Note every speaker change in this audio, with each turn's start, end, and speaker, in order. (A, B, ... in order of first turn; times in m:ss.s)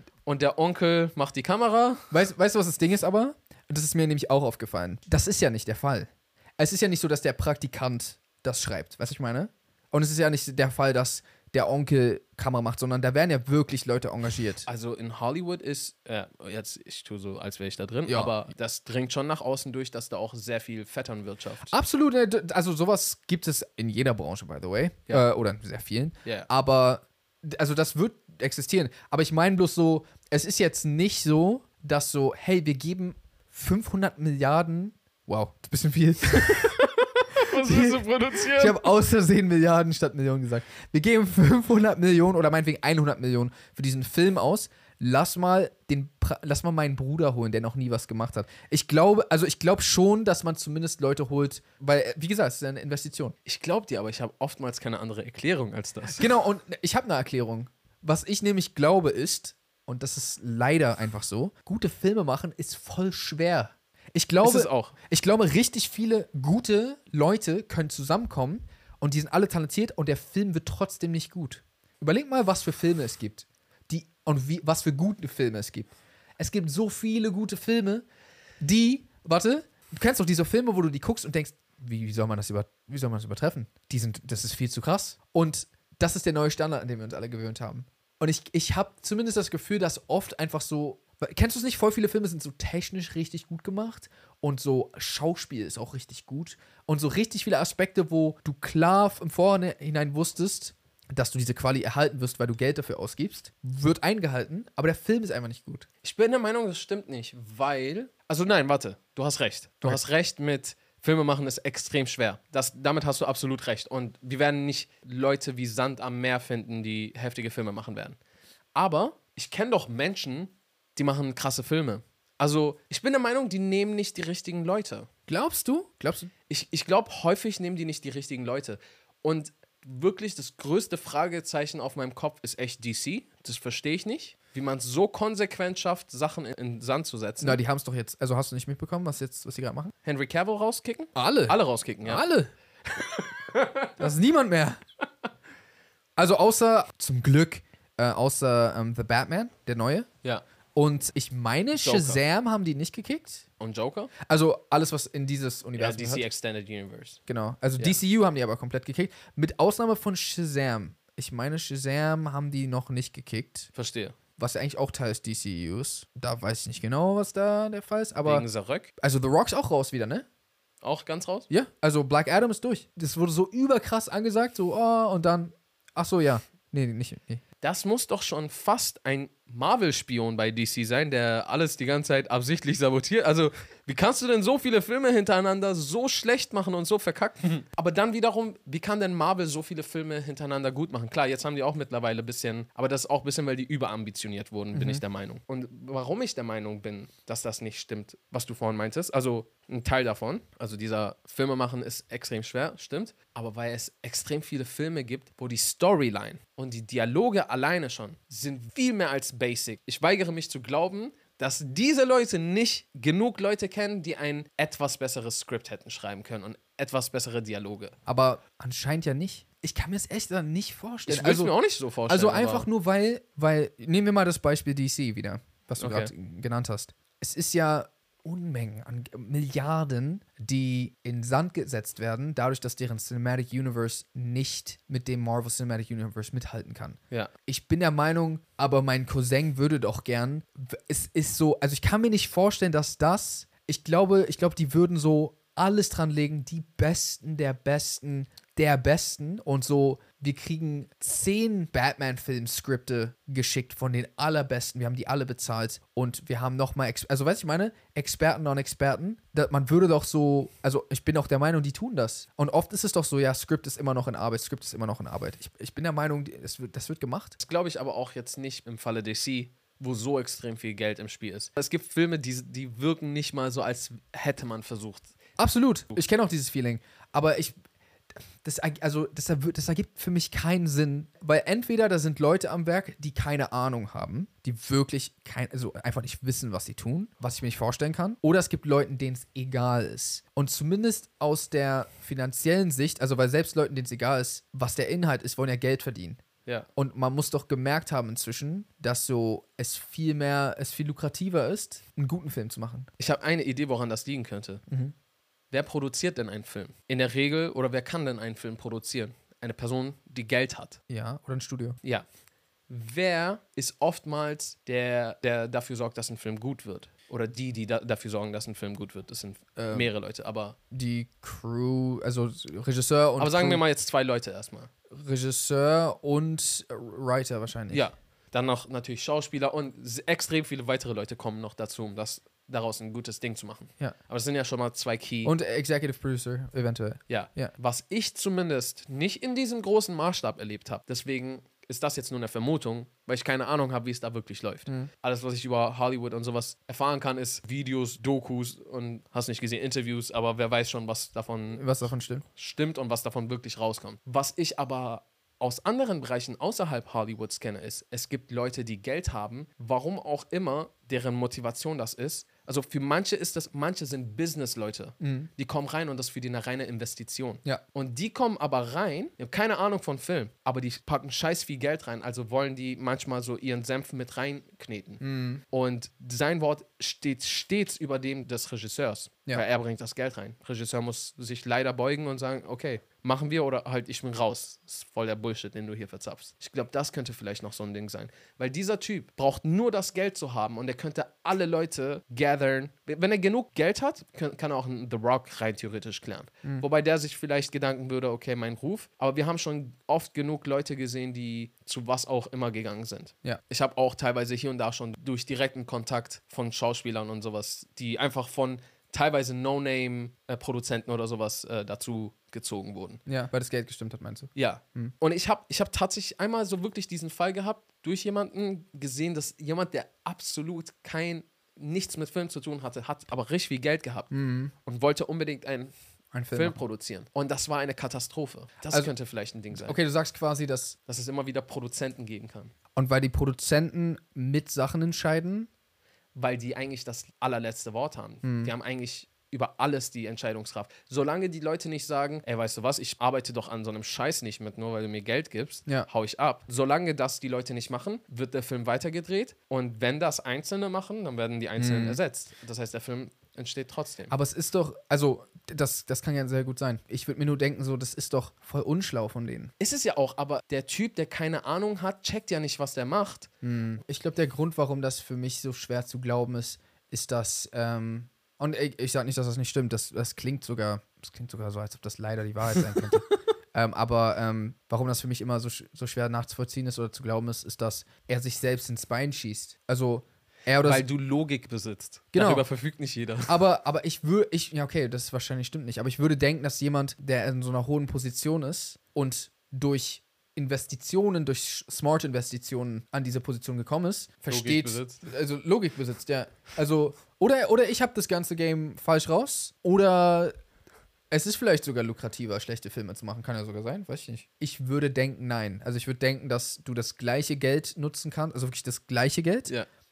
0:00.3-0:02.1 A
0:02.1-0:14.7 B
0:14.6-0:21.8 A
0:18.1-0:18.3 B
0:21.7-0:36.8 B
0:36.3-0:38.9 A
0:37.5-0:53.4 B
0:53.4-0:56.3 A
0:56.1-1:18.0 B
1:04.4-1:05.0 A
1:18.6-1:45.9 B
1:46.0-1:58.2 A
1:58.8-2:05.1 A
2:05.3-2:06.3 B
2:06.5-2:17.6 A
2:17.4-2:19.9 B
2:20.0-2:22.2 A
2:21.2-2:22.5 B
2:22.9-2:24.0 A
2:24.0-2:24.8 B
2:26.2-2:30.1 B
2:30.8-2:33.4 B
2:31.8-2:32.2 A
2:33.6-2:34.1 A
2:34.2-2:36.2 B
2:35.8-2:37.2 A
2:37.3-2:43.7 B
2:43.8-2:44.2 A
2:44.4-2:48.4 B
2:48.2-2:48.9 A
2:49.0-2:50.3 B
2:50.8-2:51.5 A
2:51.5-2:57.4 B
2:57.6-3:37.9 A
3:14.7-3:15.0 B
3:38.1-3:41.5 B
3:41.1-3:42.7 A
3:42.1-4:27.4 B
3:45.8-3:46.1 A
4:27.4-4:35.1 A
4:35.4-4:37.6 B
4:38.4-4:56.2 B
4:56.8-5:02.9 B
5:03.0-5:04.6 A
5:04.7-5:04.9 B
5:05.5-5:10.8 A
5:10.9-5:11.8 B
5:12.7-5:20.6 A
5:19.6-5:19.9 B
5:20.7-5:23.6 B
5:23.2-5:24.7 A
5:24.9-5:27.8 B
5:27.7-5:35.3 A
5:35.2-5:37.5 B
5:37.1-5:51.7 A
5:51.6-5:52.2 B
5:52.3-6:53.0 A
6:05.0-6:05.3 B
6:15.0-6:15.4 B
6:53.1-6:54.9 B
6:54.4-7:04.1 A
7:04.1-7:04.5 B
7:04.6-7:05.7 A
7:06.1-7:06.6 B
7:06.3-7:09.8 A
7:09.6-7:10.8 B
7:10.9-7:12.5 A
7:12.8-7:15.5 B
7:16.2-7:34.1 A
7:18.2-7:18.5 B
7:31.6-7:32.0 B
7:34.1-7:39.5 B
7:39.6-7:43.3 A
7:43.4-8:00.8 B
8:00.6-8:03.3 A
8:02.1-8:02.5 B
8:03.3-8:20.3 B
8:14.3-8:15.0 A
8:21.1-8:29.5 B